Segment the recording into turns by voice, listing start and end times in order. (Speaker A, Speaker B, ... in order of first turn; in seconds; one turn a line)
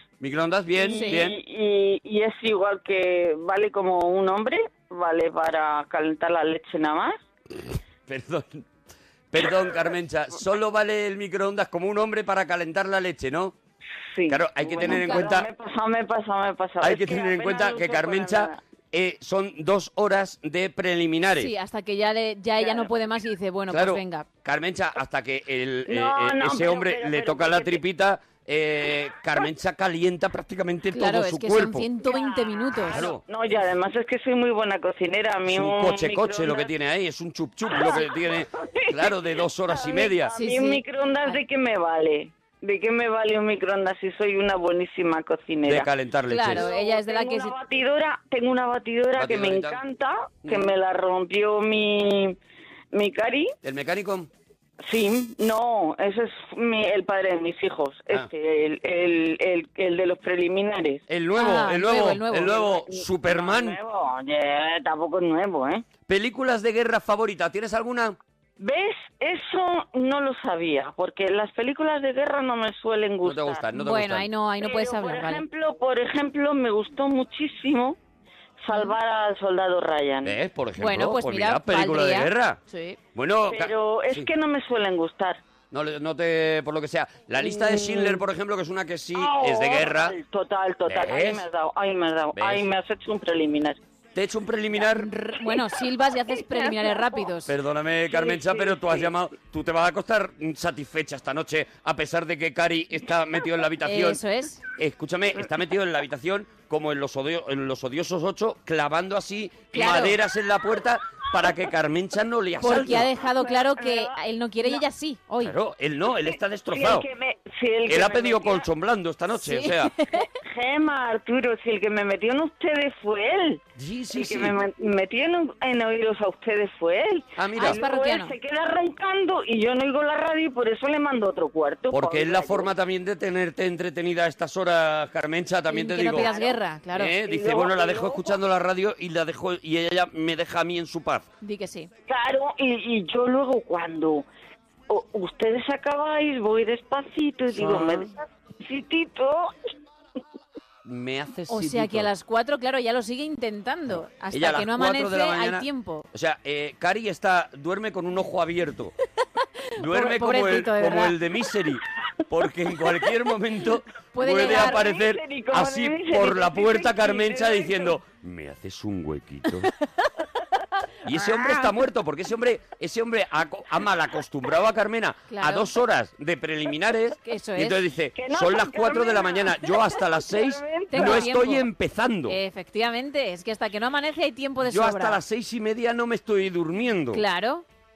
Speaker A: 0.2-1.4
Speaker B: 0.8-7.2
Speaker C: 0.9-1.2
Speaker A: 8.1-8.7
Speaker A: 9.3-13.5
Speaker B: 14.1-18.6
Speaker A: 14.3-15.5
Speaker C: 14.8-15.3
Speaker A: 16.8-21.5
Speaker C: 21.4-24.3
Speaker B: 22.6-22.9
Speaker A: 23.7-31.9
Speaker B: 25.9-27.8
Speaker C: 30.9-33.1
Speaker B: 32.0-36.7
Speaker A: 32.9-33.2
Speaker A: 35.5-40.3
Speaker B: 37.7-45.9
Speaker C: 40.4-41.4
Speaker A: 45.6-46.7
Speaker C: 46.3-47.5
Speaker B: 46.4-52.4
Speaker A: 49.2-49.8
Speaker A: 50.5-50.7
Speaker B: 52.9-53.5
Speaker A: 53.6-54.3
Speaker B: 54.9-61.0
Speaker A: 61.1-63.8
Speaker C: 61.4-62.6
Speaker B: 62.9-65.8
Speaker A: 66.1-68.2
Speaker B: 68.6-73.6
Speaker A: 73.2-74.3
Speaker C: 73.7-75.4
Speaker B: 74.6-78.0
Speaker B: 78.6-80.4
Speaker A: 80.2-82.6
Speaker C: 80.8-83.0
Speaker A: 83.2-84.3
Speaker B: 83.5-85.4
Speaker A: 85.7-90.2
Speaker B: 87.4-88.2
Speaker B: 89.1-93.8
Speaker A: 90.9-91.5
Speaker A: 92.3-92.7
Speaker A: 94.2-95.1
Speaker C: 95.0-97.5
Speaker B: 96.3-97.2
Speaker A: 97.5-104.2
Speaker B: 98.1-99.1
Speaker C: 103.8-104.6
Speaker A: 104.8-113.1
Speaker C: 109.7-110.2
Speaker C: 112.6-115.5
Speaker B: 113.2-114.8
Speaker A: 115.4-117.1
Speaker B: 116.1-118.7
Speaker A: 117.9-120.0
Speaker C: 119.4-120.2
Speaker B: 120.3-132.7
Speaker A: 123.8-124.6
Speaker A: 127.4-127.8
Speaker C: 127.6-128.3
Speaker A: 131.9-136.3
Speaker C: 135.7-137.1
Speaker B: 136.2-136.6
Speaker A: 136.9-141.3
Speaker B: 137.2-138.4
Speaker C: 141.4-141.9
Speaker B: 142.1-144.3
Speaker B: 144.9-149.5
Speaker A: 147.5-148.1
Speaker A: 150.8-152.1
Speaker C: 151.5-156.1
Speaker A: 154.3-158.9
Speaker C: 159.8-161.1
Speaker A: 159.8-169.7
Speaker C: 164.1-164.8
Speaker B: 164.4-168.0
Speaker A: 171.1-182.4
Speaker C: 175.3-175.7
Speaker C: 177.2-177.8
Speaker B: 178.2-181.3
Speaker C: 180.9-181.7
Speaker C: 182.3-185.2
Speaker A: 184.6-187.2
Speaker C: 187.1-187.7